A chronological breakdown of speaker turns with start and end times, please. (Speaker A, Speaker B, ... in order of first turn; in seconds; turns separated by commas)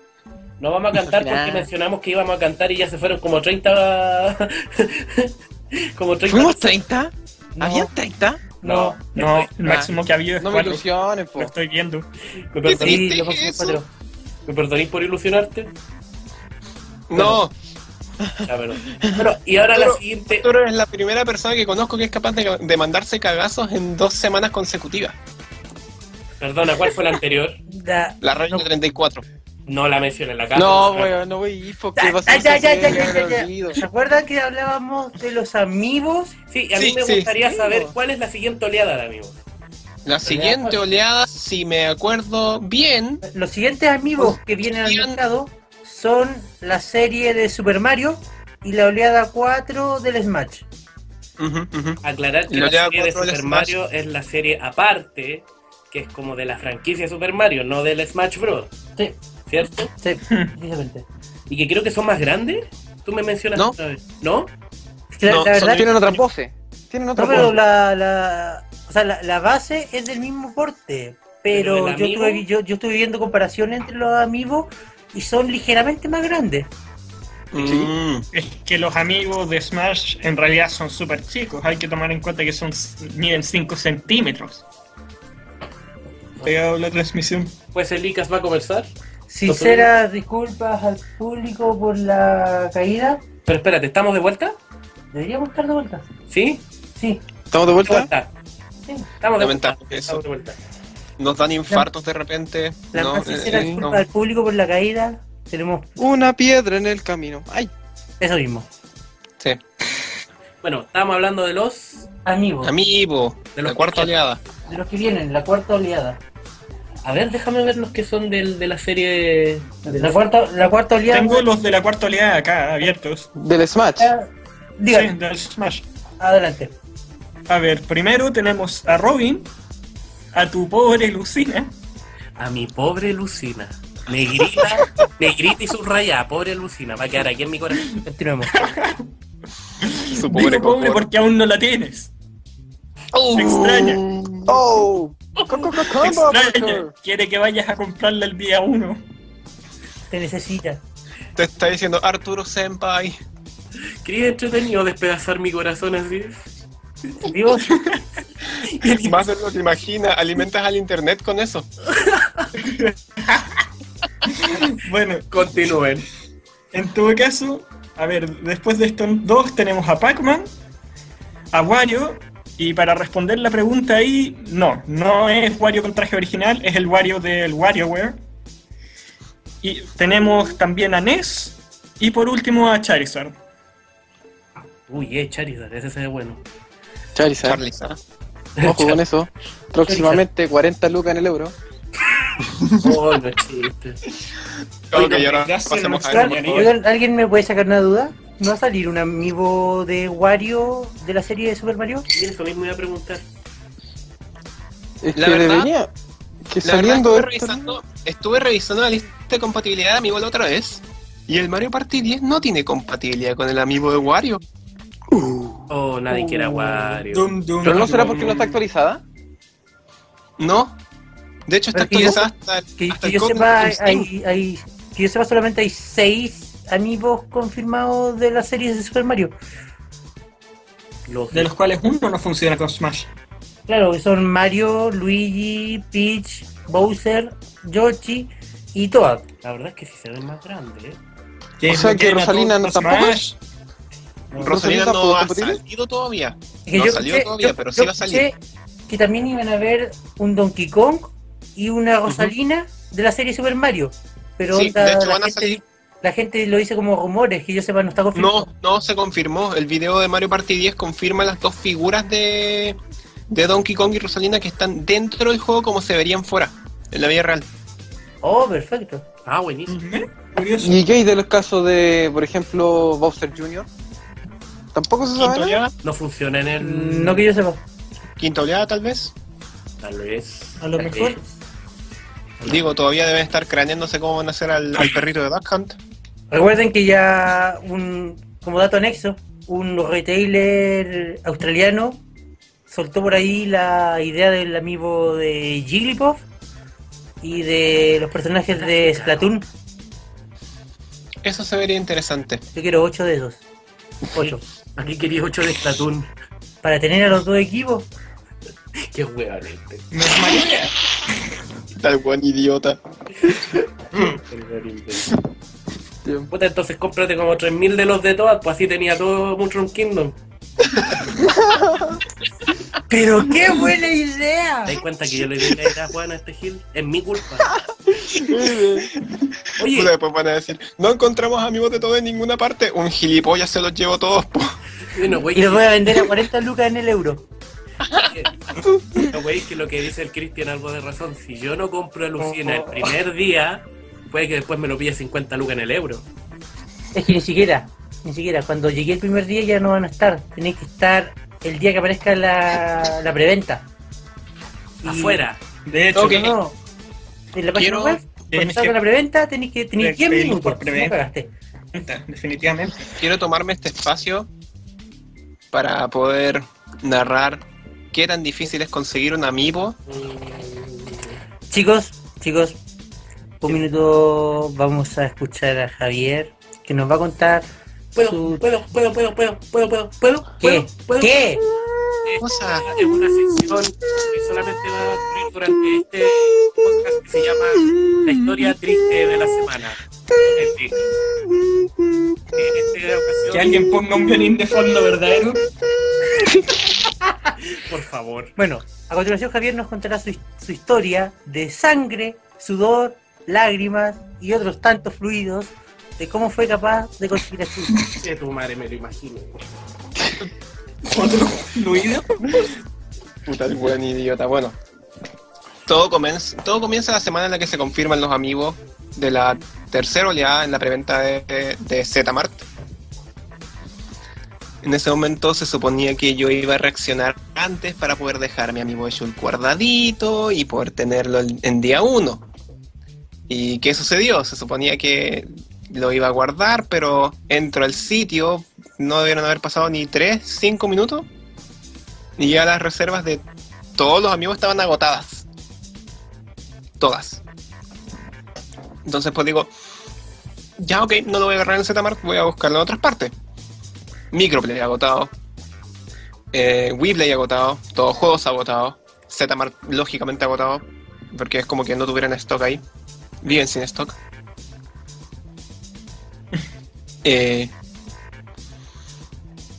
Speaker A: 0.6-5.3, Speaker B: 1.0-1.7, Speaker A: 6.0-6.8, Speaker B: 6.2-8.6, Speaker C: 7.6-7.9, Speaker A: 8.6-9.9, Speaker D: 8.6-12.1, Speaker B: 10.4-11.5, Speaker A: 12.5-13.0, Speaker E: 12.6-13.8, Speaker C: 12.7-13.9, Speaker A: 14.5-15.7, Speaker E: 17.1-17.5, Speaker B: 18.2-19.2, Speaker A: 18.4-20.5, Speaker E: 19.7-25.2, Speaker A: 26.4-27.6, Speaker C: 27.7-28.7, Speaker E: 28.2-29.2, Speaker A: 29.7-31.3, Speaker B: 30.6-33.8, Speaker C: 32.0-36.4, Speaker A: 36.5-39.4, Speaker E: 36.8-37.3, Speaker B: 37.4-37.9, Speaker E: 40.0-43.2, Speaker C: 40.2-40.6, Speaker A: 40.4-40.8, Speaker C: 43.2-50.6, Speaker E: 44.2-45.2, Speaker E: 51.4-53.7, Speaker A: 52.0-58.7, Speaker A: 59.5-59.9, Speaker C: 60.0-61.1, Speaker D: 60.3-60.5, Speaker A: 61.5-64.5, Speaker C: 65.1-65.9, Speaker E: 65.3-66.0, Speaker B: 65.7-67.6, Speaker C: 67.2-76.7, Speaker A: 71.5-72.4, Speaker E: 77.5-78.3, Speaker B: 77.6-77.9, Speaker D: 78.3-84.6, Speaker D: 86.4-87.6, Speaker A: 87.7-88.9, Speaker C: 89.3-93.2, Speaker A: 89.5-89.9, Speaker A: 93.5-94.6, Speaker C: 95.1-96.0, Speaker A: 96.3-96.6, Speaker C: 97.0-97.2, Speaker B: 97.5-98.1, Speaker A: 97.8-98.3, Speaker A: 99.2-100.6, Speaker E: 99.4-100.2, Speaker E: 101.2-104.0, Speaker C: 102.9-106.0, Speaker B: 103.5-103.8, Speaker B: 106.0-107.7, Speaker C: 108.2-108.7, Speaker A: 110.6-112.1, Speaker C: 112.3-112.7, Speaker E: 112.6-114.4, Speaker A: 113.5-114.1, Speaker C: 114.7-116.2, Speaker A: 117.0-120.2, Speaker C: 119.9-121.5, Speaker D: 121.1-123.3, Speaker B: 123.3-124.1, Speaker C: 124.0-125.1, Speaker D: 124.9-125.8, Speaker C: 126.2-126.7, Speaker D: 127.5-129.5, Speaker D: 130.3-131.7, Speaker A: 132.4-137.9, Speaker D: 137.9-139.1, Speaker C: 138.1-138.7, Speaker D: 139.8-142.1, Speaker E: 140.1-141.1, Speaker E: 143.1-144.6, Speaker D: 143.3-144.0, Speaker B: 144.5-146.9, Speaker D: 145.9-149.0, Speaker C: 150.1-150.8, Speaker E: 151.4-153.2, Speaker A: 154.0-156.5, Speaker C: 157.2-157.8, Speaker D: 157.7-158.0, Speaker A: 158.6-159.3, Speaker E: 158.8-161.7, Speaker A: 162.0-162.5, Speaker D: 162.6-163.6, Speaker D: 164.3-165.3, Speaker A: 165.3-166.1, Speaker D: 166.7-170.5, Speaker D: 171.5-178.2, Speaker D: 179.6-183.4, Speaker A: 184.9-186.4, Speaker B: 187.2-187.6, Speaker E: 187.4-188.0, Speaker A: 188.6-189.0, Speaker B: 188.6-191.6, Speaker C: 189.8-190.2, Speaker A: 192.7-194.0, Speaker E: 194.9-196.7, Speaker D: 194.9-196.7, Speaker C: 196.1-202.1, Speaker A: 202.1-203.2, Speaker B: 205.0-205.9, Speaker E: 205.1-205.7, Speaker B: 206.5-207.8, Speaker E: 206.6-214.4, Speaker B: 215.1-215.7, Speaker A: 215.7-218.0, Speaker D: 216.3-218.4, Speaker B: 217.6-219.0, Speaker E: 218.1-218.5, Speaker E: 220.4-220.8, Speaker E: 221.5-224.1, Speaker C: 221.7-229.3, Speaker A: 231.1-231.5, Speaker D: 231.3-233.1, Speaker C: 233.7-239.2, Speaker A: 239.4-241.0, Speaker D: 241.6-243.4, Speaker B: 241.7-243.3, Speaker B: 244.3-245.6, Speaker E: 244.3-248.3, Speaker C: 246.7-258.5, Speaker E: 252.1-252.3, Speaker E: 254.5-255.6, Speaker E: 258.1-262.8, Speaker E: 263.3-267.5, Speaker C: 268.2-269.0, Speaker A: 269.2-269.7, Speaker D: 269.7-270.8, Speaker B: 270.6-273.7, Speaker B: 274.7-275.6, Speaker E: 275.2-275.7, Speaker A: 275.8-277.3, Speaker C: 276.6-277.6, Speaker E: 278.2-279.1, Speaker A: 279.8-281.1, Speaker D: 280.6-281.2, Speaker E: 282.4-285.8, Speaker C: 286.3-292.0, Speaker C: 292.7-296.2, Speaker C: 297.2-299.5, Speaker A: 298.6-299.2, Speaker E: 301.2-302.4, Speaker C: 302.6-303.4, Speaker C: 304.1-304.4, Speaker A: 304.2-306.1, Speaker C: 306.6-307.9, Speaker A: 308.9-309.9, Speaker D: 309.9-310.7, Speaker E: 311.8-312.8, Speaker A: 314.0-315.1, Speaker B: 316.0-316.3, Speaker A: 316.3-320.2, Speaker B: 321.2-322.0, Speaker C: 322.9-324.8, Speaker A: 324.7-327.5, Speaker B: 328.1-328.9, Speaker A: 329.6-329.9, Speaker E: 329.6-334.6, Speaker A: 334.9-336.0, Speaker C: 335.3-337.3, Speaker A: 338.0-338.3, Speaker A: 338.9-346.1, Speaker C: 346.9-353.6, Speaker A: 354.8-355.4, Speaker C: 354.8-355.3, Speaker D: 355.6-356.3, Speaker E: 355.9-356.3, Speaker C: 356.0-356.6, Speaker C: 357.3-361.3, Speaker E: 357.6-358.0, Speaker D: 358.3-358.8, Speaker D: 359.8-361.0, Speaker D: 361.7-362.9, Speaker E: 363.0-364.3, Speaker E: 365.5-369.8, Speaker A: 369.9-371.2, Speaker C: 371.5-372.6, Speaker C: 373.4-378.4, Speaker A: 377.9-381.4, Speaker C: 380.4-381.4, Speaker A: 382.0-390.9, Speaker E: 382.2-382.6, Speaker A: 392.3-393.6, Speaker D: 393.3-395.4, Speaker A: 397.5-398.3, Speaker C: 398.4-407.9, Speaker A: 407.9-409.4, Speaker D: 410.9-412.2, Speaker E: 413.3-414.6, Speaker E: 415.7-422.5, Speaker E: 424.6-432.3, Speaker E: 433.3-441.1, Speaker E: 442.2-443.2, Speaker E: 443.8-445.3, Speaker E: 446.8-447.2, Speaker E: 448.9-449.5, Speaker E: 450.6-453.1, Speaker E: 454.1-455.1, Speaker E: 456.3-462.6, Speaker E: 463.2-464.0, Speaker E: 467.0-467.5